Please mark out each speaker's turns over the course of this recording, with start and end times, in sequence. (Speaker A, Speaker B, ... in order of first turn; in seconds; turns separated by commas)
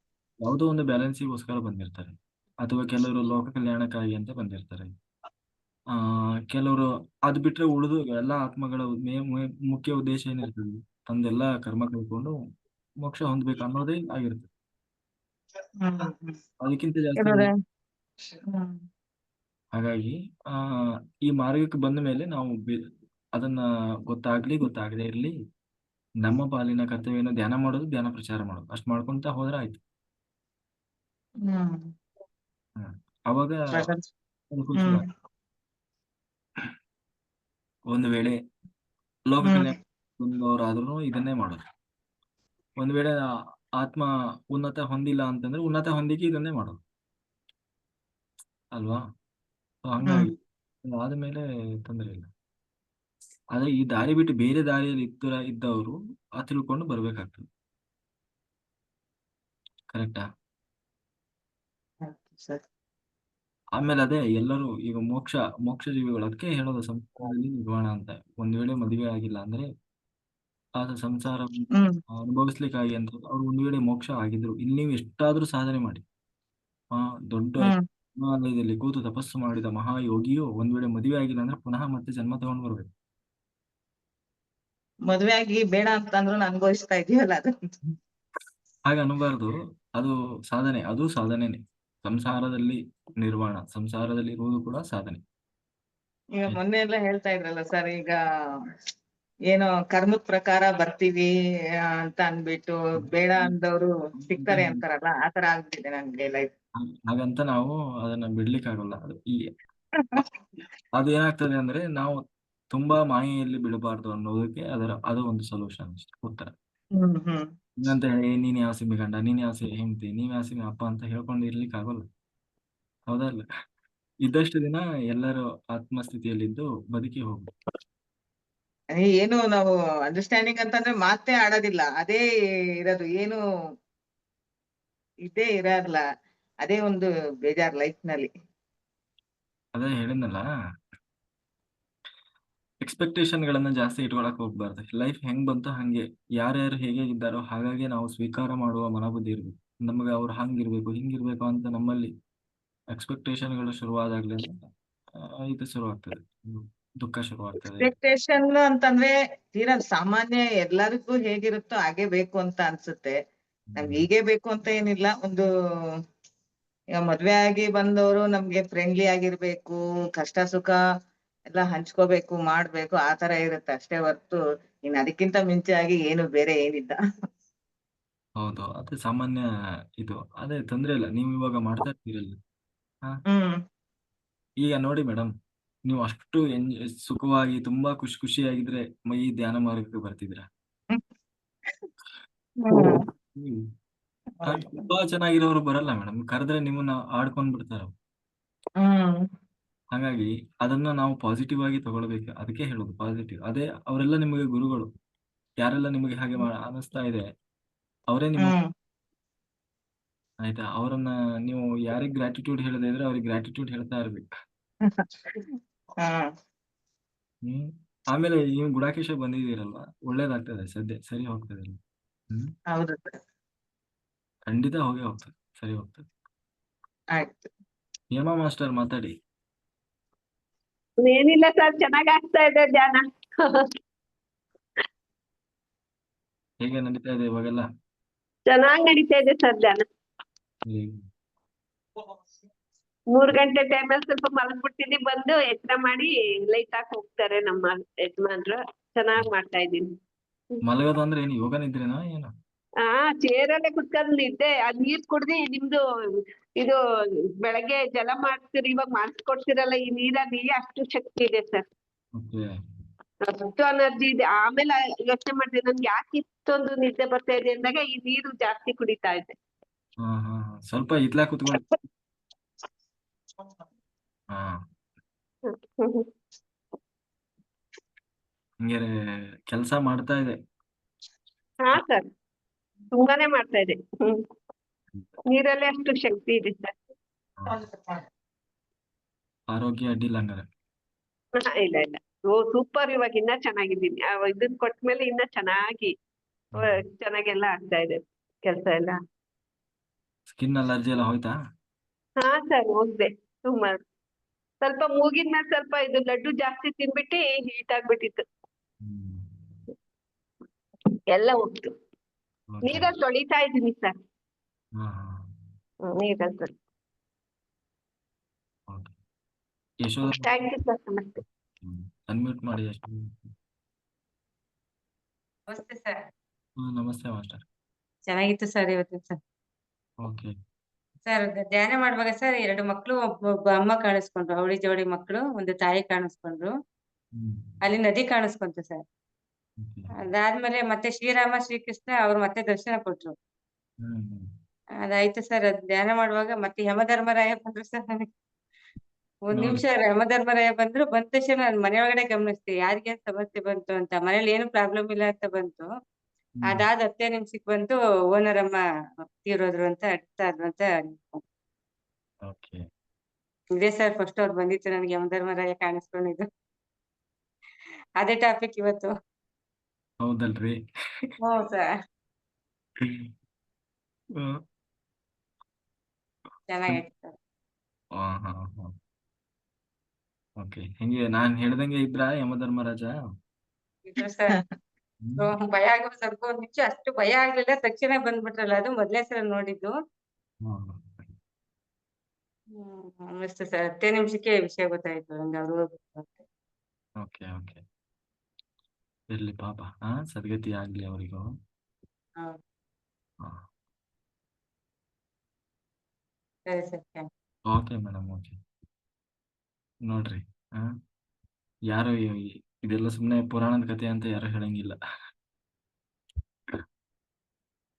Speaker A: 0.4-4.9, Speaker A: 5.9-12.4, Speaker A: 13.0-14.5, Speaker B: 15.8-16.4, Speaker A: 16.6-17.5, Speaker B: 17.2-17.5, Speaker B: 18.4-18.8, Speaker A: 19.7-22.8, Speaker A: 23.4-25.3, Speaker A: 26.2-29.8, Speaker B: 31.4-31.9, Speaker A: 32.8-33.9, Speaker B: 33.7-34.0, Speaker A: 34.5-35.0, Speaker A: 37.9-38.4, Speaker A: 39.3-41.6, Speaker A: 42.8-43.2, Speaker A: 43.8-46.8, Speaker A: 48.8-49.0, Speaker A: 49.9-50.3, Speaker A: 50.9-52.3, Speaker A: 53.5-57.5, Speaker A: 59.9-60.2, Speaker B: 62.0-62.6, Speaker A: 63.8-69.7, Speaker A: 70.8-76.0, Speaker A: 76.9-82.9, Speaker B: 85.1-87.5, Speaker A: 88.9-95.2, Speaker B: 96.4-98.2, Speaker B: 99.5-101.3, Speaker B: 102.0-106.5, Speaker A: 103.0-103.5, Speaker A: 104.2-104.8, Speaker A: 107.1-109.4, Speaker B: 110.0-110.3, Speaker A: 111.0-116.5, Speaker B: 117.0-117.5, Speaker A: 117.8-122.1, Speaker A: 123.1-123.5, Speaker A: 124.2-127.5, Speaker B: 128.9-132.2, Speaker B: 132.8-133.4, Speaker B: 135.3-136.0, Speaker B: 136.6-138.3, Speaker A: 139.8-140.4, Speaker A: 142.8-152.1, Speaker A: 152.9-157.9, Speaker B: 157.8-163.2, Speaker A: 163.7-164.1, Speaker B: 163.8-165.4, Speaker B: 166.9-170.8, Speaker B: 171.5-177.0, Speaker A: 178.4-179.4, Speaker A: 180.0-182.4, Speaker B: 183.3-183.6, Speaker A: 184.6-185.3, Speaker A: 185.9-190.5, Speaker B: 192.6-193.0, Speaker A: 193.4-193.7, Speaker B: 194.4-194.8, Speaker A: 194.4-197.9, Speaker B: 198.8-199.2, Speaker A: 199.9-204.9, Speaker A: 205.6-207.2, Speaker A: 208.1-208.6, Speaker A: 210.4-214.3, Speaker B: 214.8-216.3, Speaker A: 217.4-221.8, Speaker B: 222.7-223.2, Speaker A: 224.5-226.1, Speaker B: 227.1-227.5, Speaker A: 228.1-229.1, Speaker C: 231.0-233.7, Speaker A: 236.6-237.7, Speaker C: 238.5-239.8, Speaker A: 240.7-241.0, Speaker C: 243.1-249.9, Speaker A: 250.6-252.3, Speaker C: 252.9-255.8, Speaker C: 257.4-261.6, Speaker A: 262.1-262.5, Speaker C: 263.3-269.4, Speaker A: 270.0-271.6, Speaker A: 274.3-274.6, Speaker C: 275.5-276.1, Speaker A: 278.6-278.9, Speaker A: 279.5-280.4, Speaker C: 281.6-282.1, Speaker C: 282.9-284.2, Speaker C: 285.3-286.8, Speaker A: 287.4-287.6, Speaker A: 289.5-290.4, Speaker C: 291.4-295.9, Speaker C: 296.5-299.0, Speaker A: 296.6-296.8, Speaker A: 300.3-301.3, Speaker C: 302.2-303.8, Speaker C: 304.6-308.2, Speaker A: 308.8-309.6, Speaker C: 311.1-311.7, Speaker A: 312.5-312.9, Speaker C: 312.6-313.9, Speaker A: 314.8-315.4, Speaker C: 315.9-316.5, Speaker A: 318.7-318.9, Speaker A: 319.8-320.3, Speaker C: 320.2-321.2, Speaker A: 321.6-323.3, Speaker D: 325.5-326.0, Speaker A: 326.6-327.4, Speaker D: 328.1-329.2, Speaker A: 330.0-330.3, Speaker D: 331.1-333.0, Speaker D: 333.5-336.5, Speaker A: 337.1-337.6, Speaker D: 337.6-338.8, Speaker A: 339.6-339.9, Speaker D: 340.0-343.1, Speaker A: 343.8-344.3, Speaker D: 344.9-348.1, Speaker D: 349.3-355.7, Speaker A: 349.3-349.6, Speaker D: 356.4-358.6, Speaker D: 359.2-361.2, Speaker A: 362.2-362.6, Speaker D: 363.6-366.3, Speaker D: 368.0-368.9, Speaker A: 370.0-371.1, Speaker D: 371.2-371.7, Speaker A: 372.8-373.1, Speaker D: 376.5-377.1, Speaker A: 378.0-378.7, Speaker A: 380.4-382.9, Speaker D: 383.9-384.4, Speaker A: 385.0-385.3, Speaker D: 385.2-389.7, Speaker A: 390.4-391.1, Speaker D: 392.6-396.2, Speaker A: 397.0-397.6, Speaker A: 399.1-401.3, Speaker D: 406.5-407.1, Speaker A: 407.5-408.4, Speaker A: 409.9-410.7, Speaker A: 411.7-414.8